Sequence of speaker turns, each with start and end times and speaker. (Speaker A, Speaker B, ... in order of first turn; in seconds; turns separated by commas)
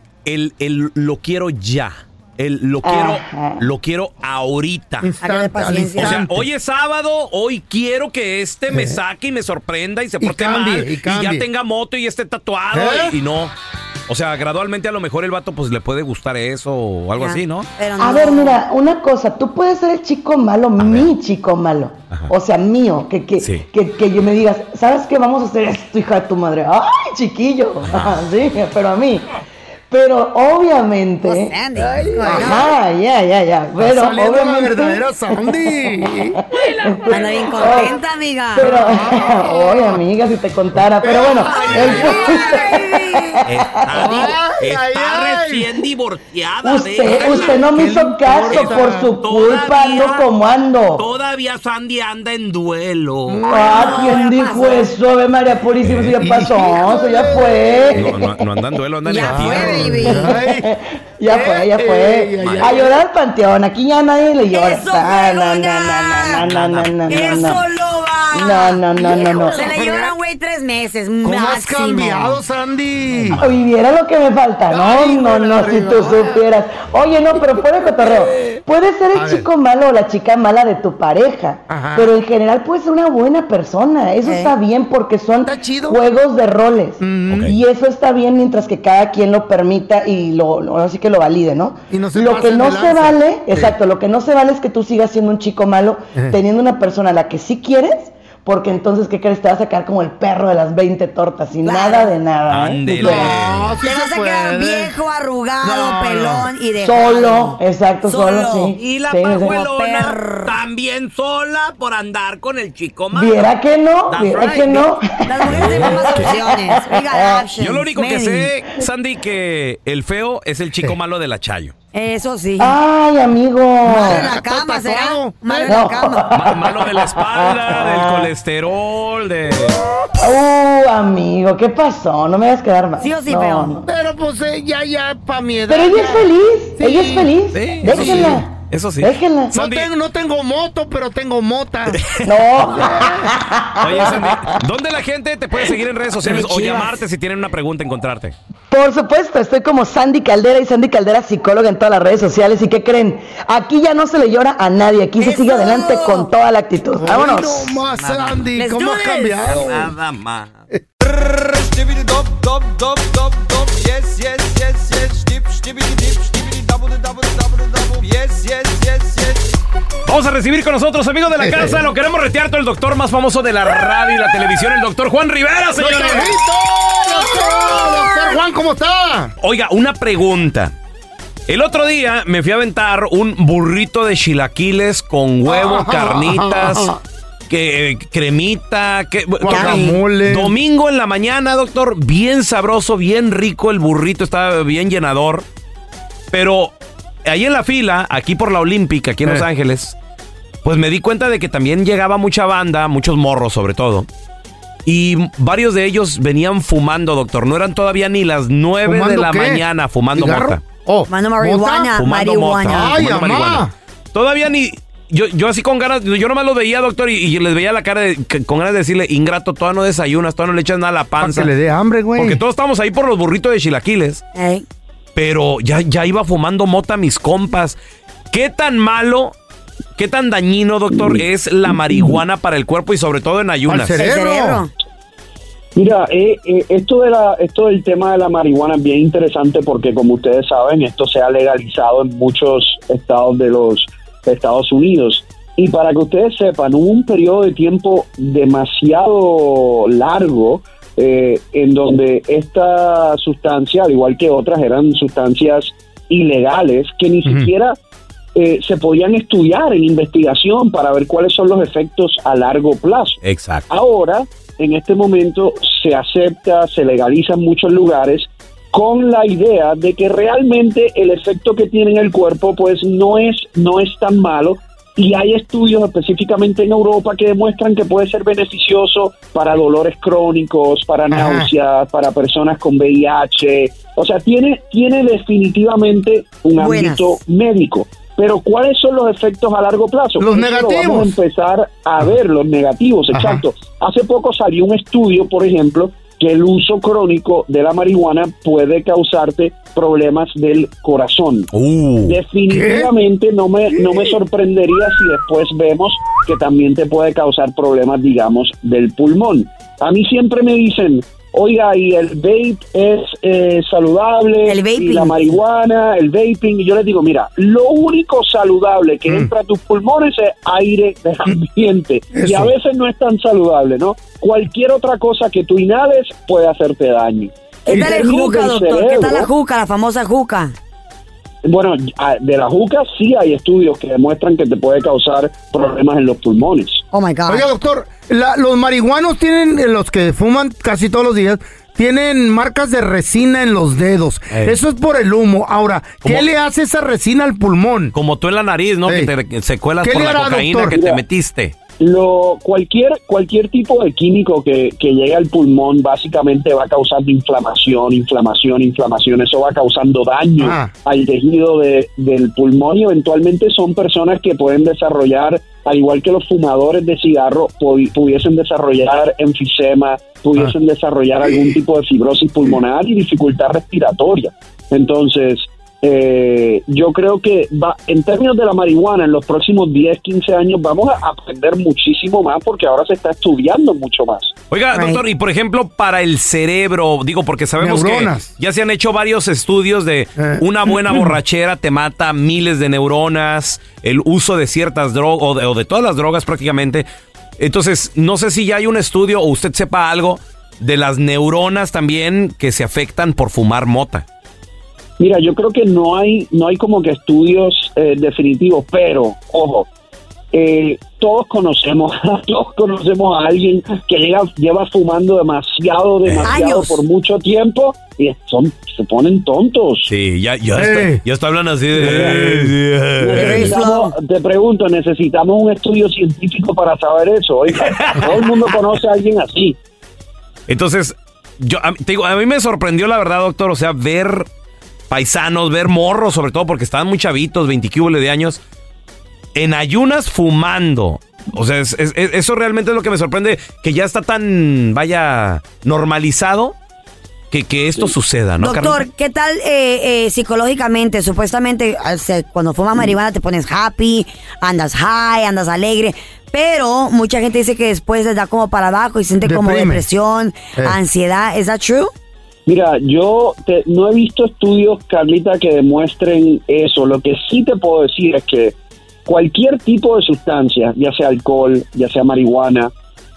Speaker A: 0.2-5.1, Speaker B: 2.8-3.7, Speaker C: 5.0-6.5, Speaker D: 5.2-6.2, Speaker A: 5.9-13.5, Speaker C: 8.7-9.0, Speaker C: 10.2-11.4, Speaker C: 12.7-13.1, Speaker A: 14.1-17.7, Speaker D: 17.2-18.6, Speaker B: 18.0-29.2, Speaker A: 20.8-21.1, Speaker A: 23.4-23.7, Speaker A: 27.9-28.2, Speaker B: 29.9-31.6, Speaker D: 31.2-32.7, Speaker C: 31.8-32.7, Speaker B: 32.3-38.0, Speaker C: 33.8-36.4, Speaker D: 37.1-38.7, Speaker C: 37.2-37.9, Speaker C: 38.5-40.0, Speaker B: 38.5-43.9, Speaker C: 41.0-42.8, Speaker A: 41.6-42.7, Speaker D: 41.6-43.3, Speaker A: 43.5-45.6, Speaker E: 43.9-47.6, Speaker C: 43.9-45.8, Speaker B: 46.6-51.0, Speaker A: 47.0-49.7, Speaker C: 47.2-49.1, Speaker E: 48.5-50.2, Speaker E: 51.0-53.4, Speaker C: 53.2-54.1, Speaker B: 53.5-58.5, Speaker D: 53.5-54.9, Speaker A: 55.8-56.1, Speaker C: 56.2-58.0, Speaker A: 57.9-60.0, Speaker D: 59.0-60.4, Speaker C: 59.2-60.7, Speaker B: 60.0-67.7, Speaker C: 61.3-63.0, Speaker A: 62.4-62.7, Speaker D: 64.5-66.5, Speaker A: 66.4-67.5, Speaker D: 67.1-72.4, Speaker B: 68.3-69.6, Speaker C: 69.0-70.1, Speaker C: 71.2-73.4, Speaker A: 73.1-73.5, Speaker B: 73.3-103.4, Speaker C: 74.7-76.4, Speaker C: 77.3-78.6, Speaker C: 79.1-79.5, Speaker C: 81.7-82.1, Speaker D: 84.2-84.5, Speaker C: 85.4-86.0, Speaker C: 87.0-87.5, Speaker A: 87.3-87.5, Speaker C: 91.9-93.2, Speaker D: 101.6-102.1, Speaker A: 102.5-103.8, Speaker C: 103.0-105.0, Speaker D: 103.8-108.8, Speaker C: 105.6-106.5, Speaker B: 106.8-109.6, Speaker E: 108.7-113.5, Speaker D: 109.3-110.5, Speaker B: 113.1-117.5, Speaker E: 114.1-114.9, Speaker D: 115.2-118.5, Speaker A: 115.4-116.4, Speaker A: 117.6-121.7, Speaker D: 121.9-122.8, Speaker B: 122.6-124.3, Speaker C: 123.8-125.7, Speaker D: 123.9-126.2, Speaker B: 125.7-128.3, Speaker A: 126.3-129.8, Speaker B: 130.2-133.8, Speaker D: 133.0-133.8, Speaker C: 133.8-137.3, Speaker B: 135.7-139.6, Speaker A: 137.5-139.9, Speaker C: 137.9-138.3, Speaker C: 139.5-142.0, Speaker A: 141.9-142.3, Speaker B: 142.2-144.6, Speaker C: 142.6-143.3, Speaker A: 143.8-148.3, Speaker D: 146.2-146.9, Speaker B: 148.7-157.8, Speaker D: 155.2-156.3, Speaker C: 156.9-159.9, Speaker A: 158.0-158.4, Speaker D: 158.6-159.6, Speaker A: 159.5-160.5, Speaker A: 170.1-176.4, Speaker C: 171.4-171.8, Speaker C: 175.7-179.3, Speaker D: 177.5-178.1, Speaker A: 179.4-180.7, Speaker A: 181.5-186.9, Speaker C: 185.4-187.0, Speaker A: 187.5-195.4, Speaker C: 189.4-190.5, Speaker D: 189.5-189.9, Speaker A: 196.3-199.9, Speaker A: 200.6-204.1, Speaker A: 204.8-210.6, Speaker C: 208.8-209.6, Speaker C: 210.1-211.9, Speaker D: 211.1-213.0, Speaker A: 211.9-221.5, Speaker C: 212.7-213.7, Speaker C: 221.2-222.4, Speaker A: 222.2-224.2, Speaker D: 224.3-224.6, Speaker A: 225.2-227.8, Speaker A: 228.3-229.3, Speaker A: 229.9-234.0, Speaker F: 230.9-232.2, Speaker C: 233.7-234.6, Speaker D: 234.0-234.7, Speaker F: 235.7-257.8, Speaker C: 257.2-257.5, Speaker F: 258.3-301.5, Speaker A: 263.2-263.6, Speaker C: 281.1-281.5, Speaker D: 286.6-287.2, Speaker C: 290.2-291.1, Speaker C: 293.1-293.4, Speaker A: 301.5-302.2, Speaker F: 302.1-329.3, Speaker C: 302.5-302.9, Speaker D: 314.5-315.3, Speaker C: 322.1-322.5, Speaker D: 327.6-330.5, Speaker F: 331.4-336.8, Speaker D: 336.9-337.5, Speaker C: 337.3-347.9, Speaker A: 344.3-344.6, Speaker A: 347.9-351.5, Speaker C: 348.9-349.1, Speaker C: 349.8-350.8, Speaker F: 350.7-351.0, Speaker F: 351.8-384.3, Speaker C: 360.4-360.7, Speaker A: 384.5-396.9, Speaker D: 384.7-385.0, Speaker C: 387.6-388.3, Speaker C: 390.2-391.1, Speaker A: 397.4-404.0, Speaker F: 405.0-409.7, Speaker F: 410.3-419.9, Speaker A: 416.0-416.3, Speaker D: 416.2-416.8, Speaker A: 419.9-423.6, Speaker C: 420.5-421.0, Speaker C: 421.8-422.6, Speaker F: 423.0-429.6, Speaker D: 423.1-423.9, Speaker A: 427.5-428.2, Speaker A: 430.5-434.3, Speaker A: 434.9-438.4, Speaker A: 439.3-446.6, Speaker A: 447.3-448.8, Speaker D: 448.4-461.9, Speaker C: 459.2-459.8, Speaker F: 462.5-468.5, Speaker F: 469.1-472.7